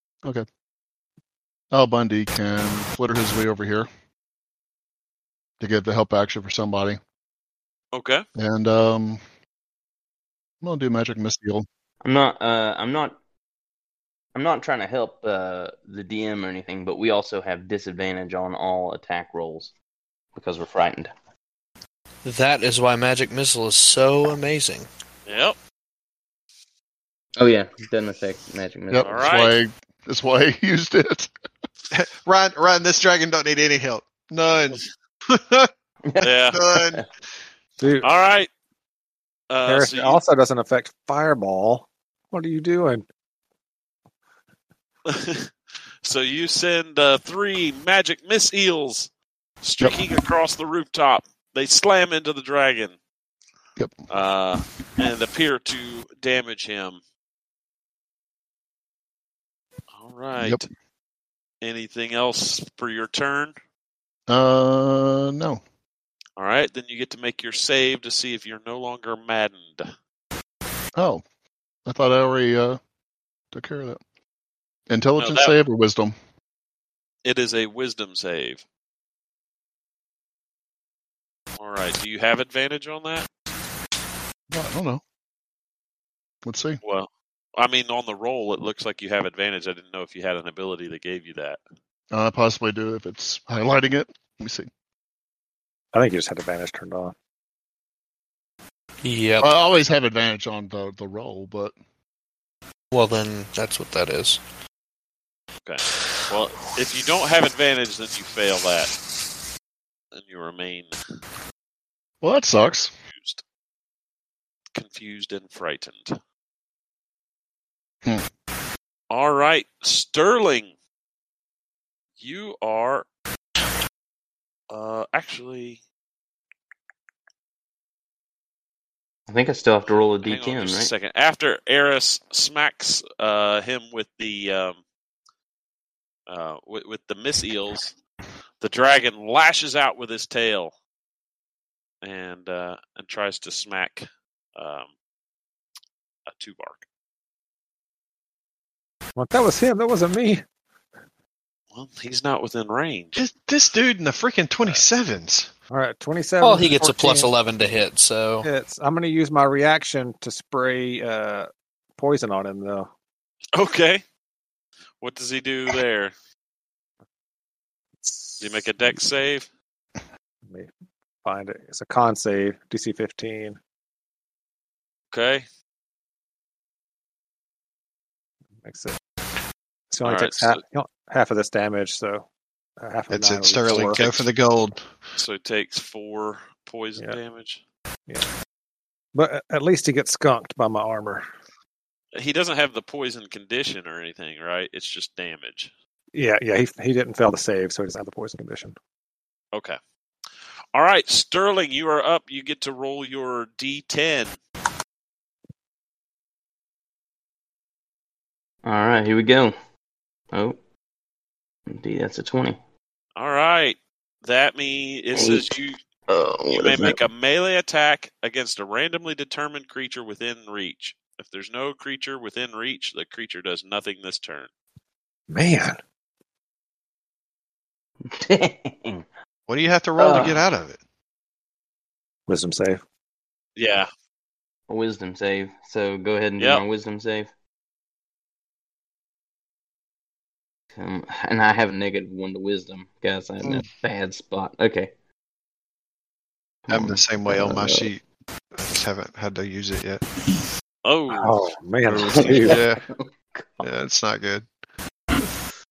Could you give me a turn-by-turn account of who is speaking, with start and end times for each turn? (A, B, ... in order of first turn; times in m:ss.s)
0:01.7-0:03.9 A
0:05.6-0:07.0 A
0:07.9-0:08.2 B
0:08.4-0:09.2 A
0:10.6-0:11.6 A
0:12.0-0:13.2 C
0:14.3-0:19.7 C
0:20.3-0:21.1 C
0:22.2-0:24.9 D
0:25.2-0:25.6 B
0:27.4-0:29.3 C
0:28.9-0:31.3 A
0:29.0-0:29.6 B
0:31.9-0:35.7 E
0:36.0-0:37.0 C
0:36.2-0:36.6 B
0:36.5-0:37.0 E
0:37.8-0:38.1 F
0:38.0-0:38.5 B
0:39.5-0:40.2 B
0:39.6-0:43.0 F
0:45.0-0:49.1 B
0:49.6-0:53.0 B
0:54.1-0:57.0 B
0:59.9-1:00.6 B
1:00.4-1:00.6 A
1:01.6-1:03.5 B
1:04.3-1:05.6 A
1:06.4-1:09.9 B
1:11.0-1:11.2 A
1:11.8-1:12.8 A
1:13.5-1:14.0 A
1:14.9-1:16.1 A
1:15.2-1:15.6 B
1:17.2-1:18.6 B
1:21.6-1:23.3 B
1:24.5-1:25.0 A
1:26.4-1:26.8 A
1:26.8-1:31.6 B
1:32.1-1:34.7 A
1:35.9-1:37.1 F
1:39.0-1:39.5 D
1:39.4-1:41.8 A
1:42.9-1:44.4 D
1:45.6-1:48.9 B
1:50.1-1:51.0 B
1:52.2-1:52.9 A
1:53.1-1:53.4 B
1:54.7-1:56.2 B
1:59.1-2:00.7 B
2:02.2-2:03.0 B
2:04.7-2:05.8 B
2:09.3-2:10.9 C
2:09.9-2:14.8 B
2:16.3-2:17.9 B
2:18.6-2:20.7 B
2:22.0-2:24.9 B
2:26.3-2:26.8 B
2:29.2-2:30.4 F
2:31.7-2:33.2 B
2:33.2-2:35.5 E
2:35.7-2:37.3 F
2:36.4-2:38.5 D
2:38.4-2:42.9 F
2:43.5-2:44.0 B
2:45.0-2:46.1 B
2:48.0-2:49.0 F
2:48.4-2:49.5 B
2:50.4-2:50.7 F
2:51.2-2:53.6 F
2:55.1-2:55.4 B
2:58.6-2:59.0 F
2:59.9-3:02.2 F
3:00.0-3:00.6 B
3:02.8-3:04.0 F
3:03.1-3:04.8 E
3:03.7-3:04.2 B
3:05.2-3:07.6 B
3:09.1-3:11.3 F
3:12.1-3:15.7 B
3:16.1-3:18.7 F
3:19.5-3:19.8 B
3:20.7-3:24.4 B
3:28.6-3:29.5 C
3:30.3-3:30.6 C
3:31.7-3:32.6 C
3:33.2-3:35.8 B
3:35.1-3:35.5 C
3:36.1-3:37.0 C
3:36.5-3:44.5 B
3:45.3-3:45.8 F
3:48.1-3:49.1 C
3:49.5-3:50.8 E
3:50.0-3:50.4 C
3:52.3-3:52.8 F
3:53.6-3:53.9 B
3:54.7-3:57.3 C
4:00.8-4:04.9 C
4:03.4-4:03.7 E
4:06.6-4:07.9 C
4:06.7-4:08.0 E
4:08.5-4:10.0 E
4:10.8-4:11.4 B
4:11.1-4:12.6 F
4:11.9-4:12.8 E
4:12.0-4:13.7 C
4:13.6-4:14.5 E